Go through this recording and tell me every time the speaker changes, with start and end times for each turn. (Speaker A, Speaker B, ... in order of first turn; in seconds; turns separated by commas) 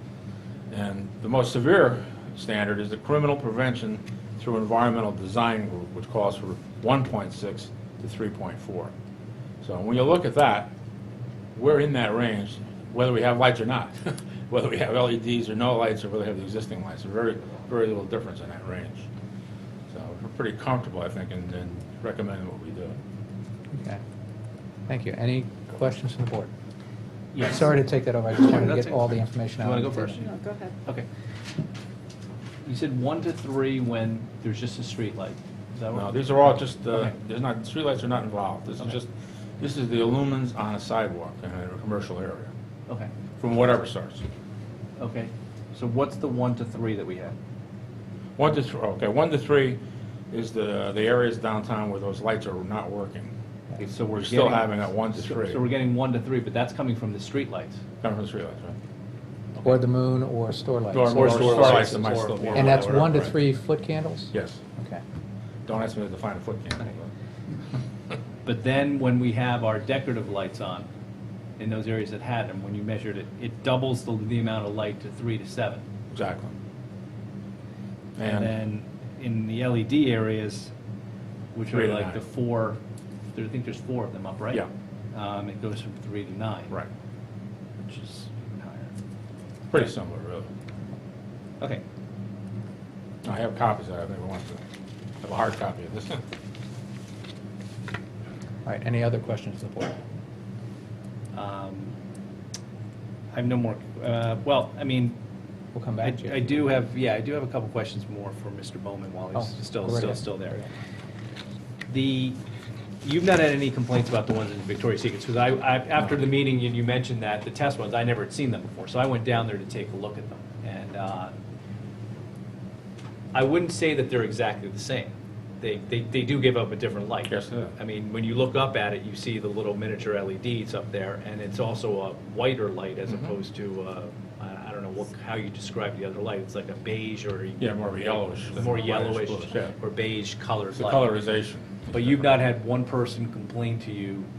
Speaker A: 0.7-8.9, Speaker A: 9.6-10.7, Speaker A: 11.6-19.1, Speaker A: 19.9-23.0, Speaker B: 23.7-24.0, Speaker B: 24.9-26.5, Speaker C: 27.3-27.8, Speaker B: 27.4-30.2, Speaker C: 28.3-31.1, Speaker C: 32.7-37.1, Speaker A: 35.9-42.5, Speaker A: 43.4-44.2, Speaker C: 45.0-47.4, Speaker A: 48.4-49.8, Speaker A: 50.3-53.3, Speaker C: 53.8-57.8, Speaker A: 54.1-55.7, Speaker A: 58.0-58.8, Speaker C: 59.6-59.8, Speaker B: 59.6-61.9, Speaker A: 60.9-63.4, Speaker C: 61.0-63.2, Speaker B: 62.5-65.0, Speaker A: 64.3-64.6, Speaker A: 65.7-67.1, Speaker C: 68.5-70.9, Speaker C: 71.6-75.8, Speaker A: 76.1-76.5, Speaker A: 78.2-78.5, Speaker C: 78.3-80.7, Speaker C: 81.5-82.8, Speaker A: 81.7-82.3, Speaker C: 83.3-86.8, Speaker C: 87.8-89.0, Speaker A: 89.7-90.5, Speaker A: 93.2-94.7, Speaker A: 95.2-96.2, Speaker B: 98.7-100.0, Speaker C: 101.3-101.9, Speaker C: 103.3-105.2, Speaker B: 105.8-106.7, Speaker C: 106.0-110.7, Speaker B: 109.3-110.7, Speaker C: 111.9-112.4, Speaker C: 113.0-121.3, Speaker C: 123.3-141.1, Speaker A: 127.3-127.7, Speaker A: 137.6-139.8, Speaker A: 140.8-142.4, Speaker C: 141.9-144.3